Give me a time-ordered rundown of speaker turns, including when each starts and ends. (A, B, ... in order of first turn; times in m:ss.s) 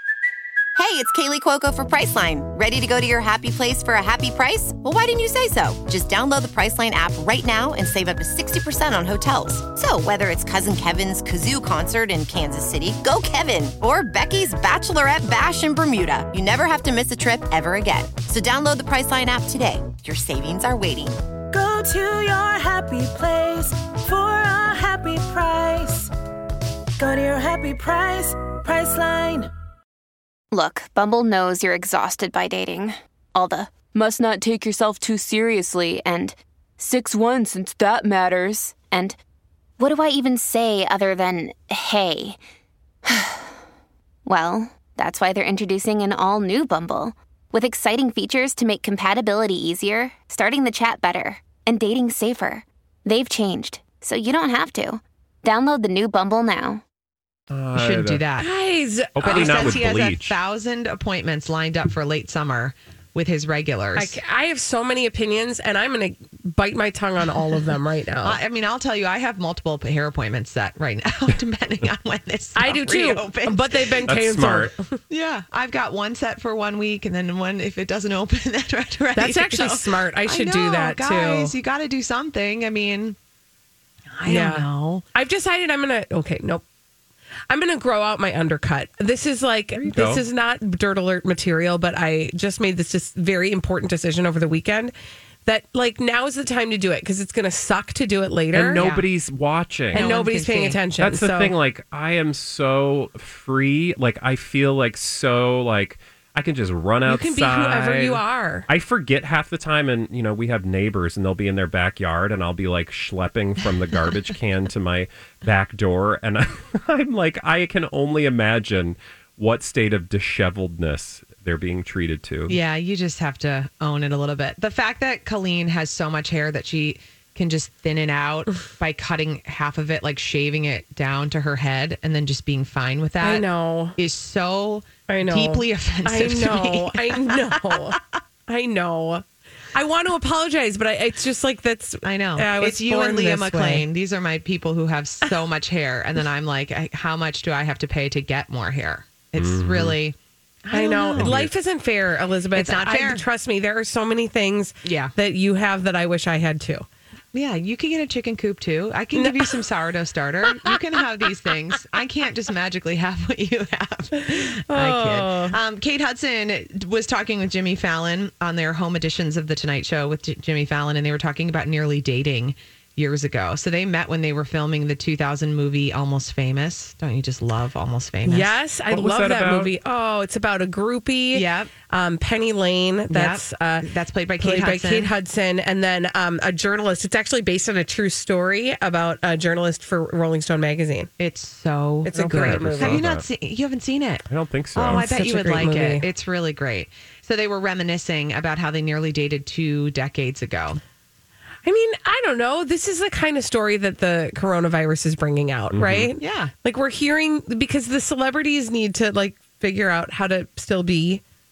0:00.8-0:21.2 A
0:21.5-0:26.1 B
0:27.0-0:29.5 B
0:30.5-0:39.2 C
0:39.8-0:42.4 C
0:43.0-0:43.5 C
0:44.2-0:56.8 C
0:57.5-0:58.2 D
0:57.7-0:58.5 E
0:58.4-0:59.8 F
0:59.2-1:00.4 D
0:59.2-1:04.2 E
1:04.0-1:08.4 F
1:08.2-1:14.0 E
1:12.6-1:14.8 F
1:14.0-1:14.7 D
1:15.1-1:23.2 E
1:19.1-1:21.5 F
1:24.2-1:25.0 E
1:24.2-1:26.6 F
1:27.5-1:34.9 F
1:29.7-1:30.2 D
1:35.4-1:38.8 F
1:38.5-1:40.1 D
1:38.7-1:39.1 E
1:39.9-1:40.8 E
1:39.9-1:41.5 F
1:41.0-2:02.6 D
1:47.0-1:48.6 F
2:02.5-2:17.9 E
2:13.2-2:13.9 F
2:15.1-2:23.8 F
2:22.0-2:31.5 E
2:29.4-2:30.0 D
2:30.7-2:36.8 F
2:31.1-2:31.5 D
2:32.5-2:33.2 E
2:34.8-2:35.1 E
2:37.3-2:58.6 E
2:39.1-2:39.5 F
2:44.2-2:45.6 F
2:58.2-3:03.9 F
2:58.9-2:59.7 D
3:01.3-3:01.7 E
3:03.1-3:05.1 E
3:04.4-3:11.1 F
3:11.2-3:20.8 E
3:12.0-3:13.0 F
3:12.3-3:13.2 D
3:14.3-3:15.1 D
3:14.9-3:16.0 F
3:21.6-3:31.2 F
3:25.7-3:26.1 D
3:26.2-3:26.5 E